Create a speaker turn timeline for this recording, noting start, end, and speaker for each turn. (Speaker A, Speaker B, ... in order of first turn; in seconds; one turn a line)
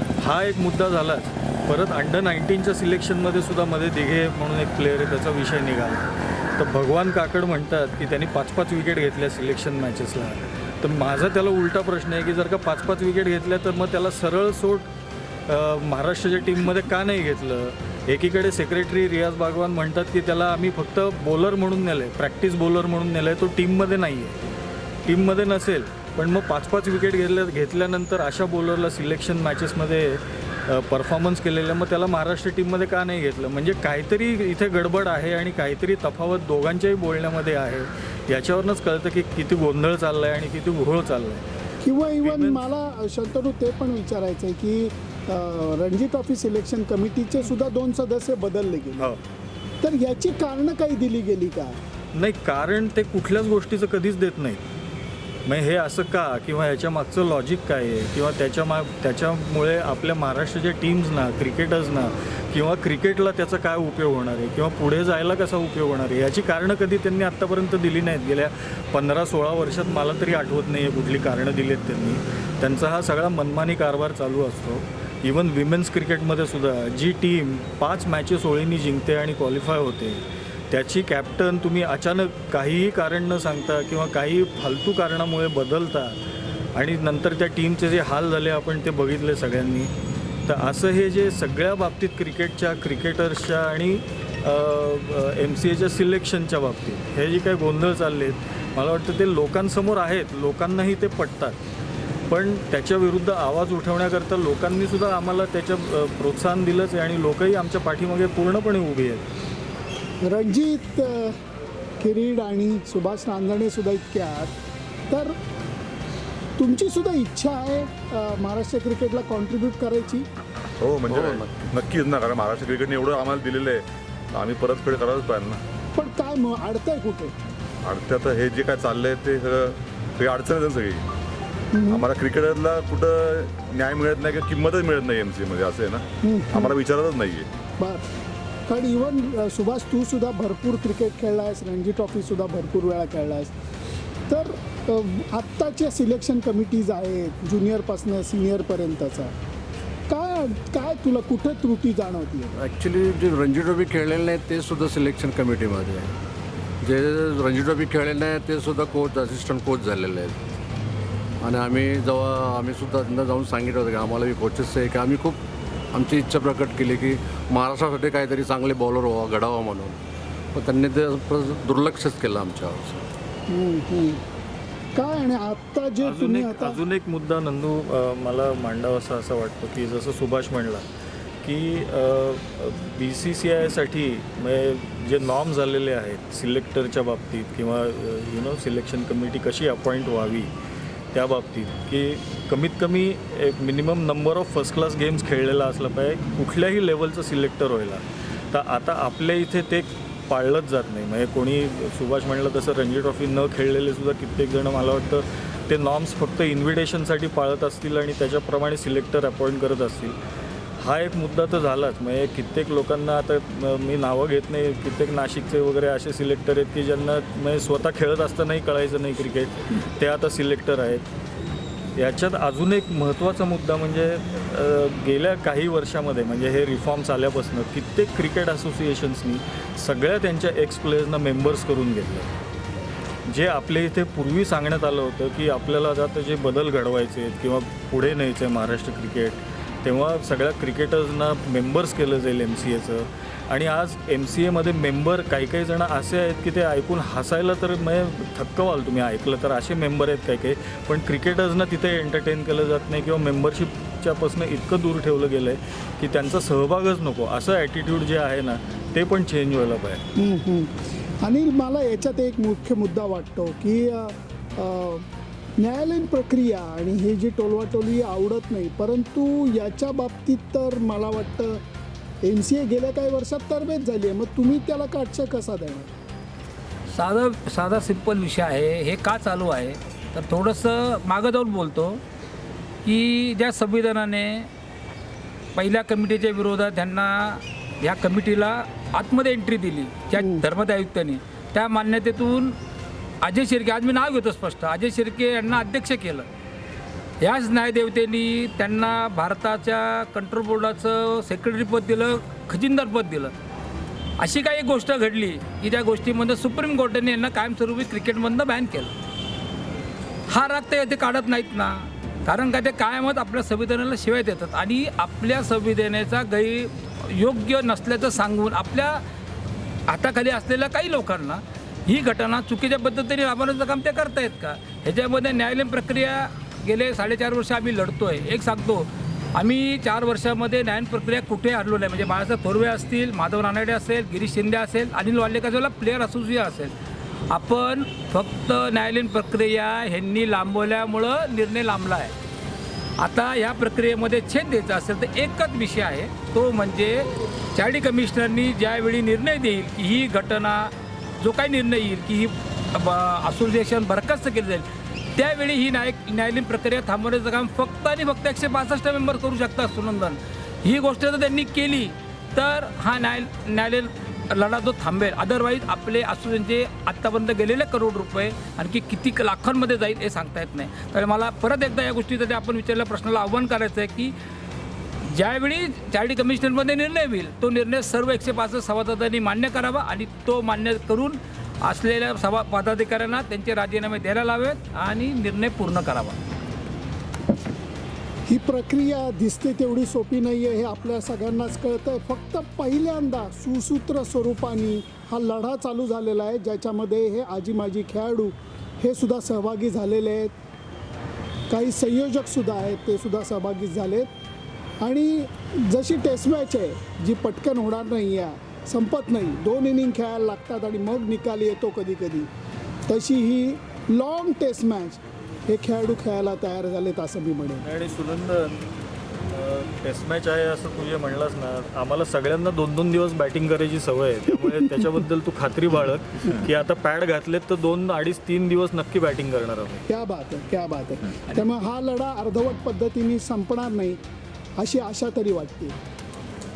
Speaker A: 0.2-6.1
Speaker A: 6.6-14.9
Speaker A: 15.5-24.4
Speaker A: 25.1-41.5
Speaker B: 41.8-49.1
Speaker A: 42.2-42.6
Speaker B: 49.8-51.8
Speaker A: 52.1-54.6
Speaker A: 55.5-86.2
Speaker A: 86.8-89.9
Speaker A: 90.5-101.6
Speaker A: 102.3-109.2
Speaker B: 110.2-111.3
Speaker B: 112.0-114.5
Speaker B: 116.6-120.3
Speaker C: 120.8-123.8
Speaker D: 121.1-123.7
Speaker D: 124.4-125.6
Speaker C: 124.7-125.6
Speaker B: 125.9-127.3
Speaker D: 127.9-129.6
Speaker C: 127.9-129.7
Speaker D: 130.2-131.0
Speaker C: 130.2-131.0
Speaker B: 131.7-132.1
Speaker C: 131.9-135.0
Speaker D: 131.9-136.0
Speaker C: 135.6-136.0
Speaker B: 136.2-136.7
Speaker C: 136.6-137.4
Speaker D: 136.7-137.4
Speaker B: 137.8-138.1
Speaker B: 138.7-143.5
Speaker B: 144.3-149.3
Speaker B: 150.1-152.6
Speaker C: 152.6-156.1
Speaker C: 156.8-160.4
Speaker C: 161.4-165.4
Speaker C: 165.9-170.0
Speaker C: 170.5-173.1
Speaker B: 173.5-174.2
Speaker B: 174.9-176.8
Speaker A: 176.0-180.8
Speaker A: 181.4-190.5
Speaker A: 191.1-210.2
Speaker A: 210.8-221.1
Speaker A: 221.9-232.3
Speaker A: 233.3-260.0
Speaker B: 260.2-265.1
Speaker B: 265.6-271.6
Speaker B: 272.2-275.9
Speaker E: 276.9-282.0
Speaker E: 282.8-284.5
Speaker E: 285.6-292.6
Speaker B: 290.2-290.4
Speaker E: 293.2-296.3
Speaker E: 297.2-303.3
Speaker E: 304.2-308.9
Speaker E: 310.3-319.0
Speaker E: 319.9-336.7
Speaker E: 337.3-342.1
Speaker E: 343.0-374.1
Speaker E: 375.0-386.2
Speaker B: 388.3-400.3
Speaker B: 401.5-404.1
Speaker B: 404.8-412.3
Speaker B: 412.9-417.7
Speaker A: 417.6-418.7
Speaker A: 419.3-429.8
Speaker B: 429.9-434.0
Speaker B: 434.6-435.8